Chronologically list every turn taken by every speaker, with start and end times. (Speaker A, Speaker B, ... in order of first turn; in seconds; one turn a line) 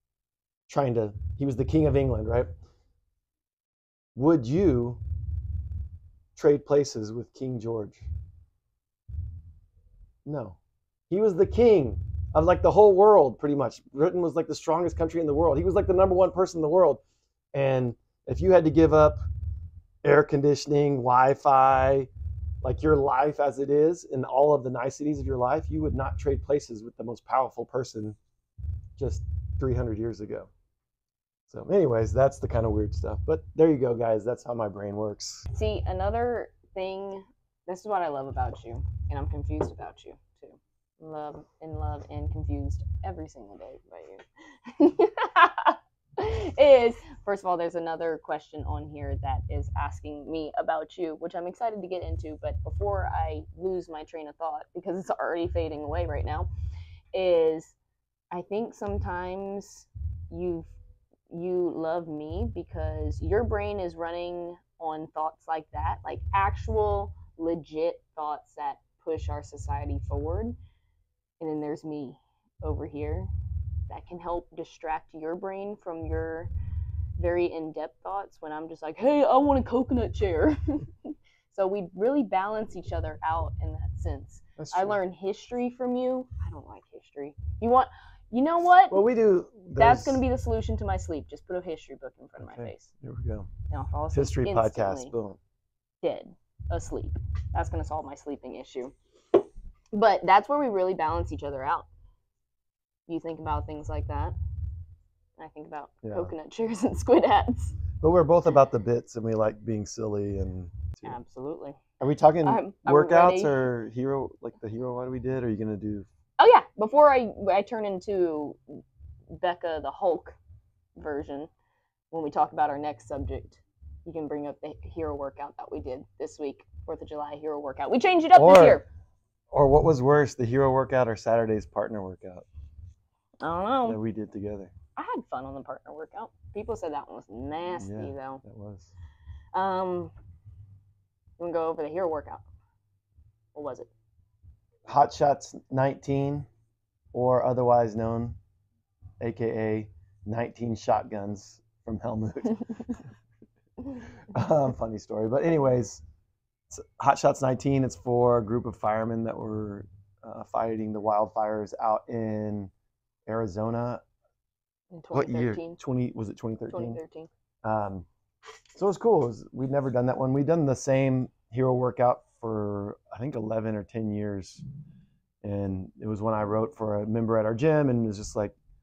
Speaker A: 0.7-2.5
Speaker A: 4.2-5.0
Speaker A: 6.4-8.1
Speaker A: 10.2-10.6
Speaker A: 11.1-17.0
Speaker A: 17.5-19.2
Speaker A: 20.0-22.1
Speaker A: 22.6-28.2
Speaker A: 29.0-30.5
Speaker A: 31.5-35.5
Speaker B: 35.5-56.5
Speaker B: 57.1-57.8
Speaker B: 58.3-60.7
Speaker B: 61.3-70.6
Speaker B: 71.4-73.3
Speaker B: 73.9-76.5
Speaker B: 77.2-89.0
Speaker A: 84.6-85.0
Speaker A: 88.9-90.2
Speaker B: 89.8-92.9
Speaker A: 92.4-93.5
Speaker B: 93.7-95.1
Speaker A: 94.1-95.4
Speaker B: 96.0-98.9
Speaker B: 99.9-101.9
Speaker B: 103.1-104.3
Speaker B: 105.4-107.8
Speaker A: 106.0-106.3
Speaker A: 108.0-111.2
Speaker B: 111.0-111.8
Speaker A: 112.0-116.1
Speaker B: 112.4-113.6
Speaker B: 116.4-118.6
Speaker B: 119.3-120.4
Speaker B: 121.0-121.5
Speaker B: 122.1-128.9
Speaker A: 128.3-128.8
Speaker A: 129.5-132.5
Speaker B: 133.4-134.0
Speaker A: 133.9-134.7
Speaker B: 135.0-138.4
Speaker A: 137.8-138.9
Speaker B: 139.5-140.1
Speaker B: 141.4-142.4
Speaker B: 143.6-143.9
Speaker A: 144.9-146.5
Speaker A: 147.1-148.4
Speaker A: 149.2-153.0
Speaker A: 154.3-156.0
Speaker A: 156.7-162.7
Speaker A: 163.3-164.0
Speaker B: 164.9-165.8
Speaker A: 165.1-167.0
Speaker B: 166.7-167.3
Speaker A: 167.6-168.1
Speaker A: 168.8-174.6
Speaker A: 175.4-178.6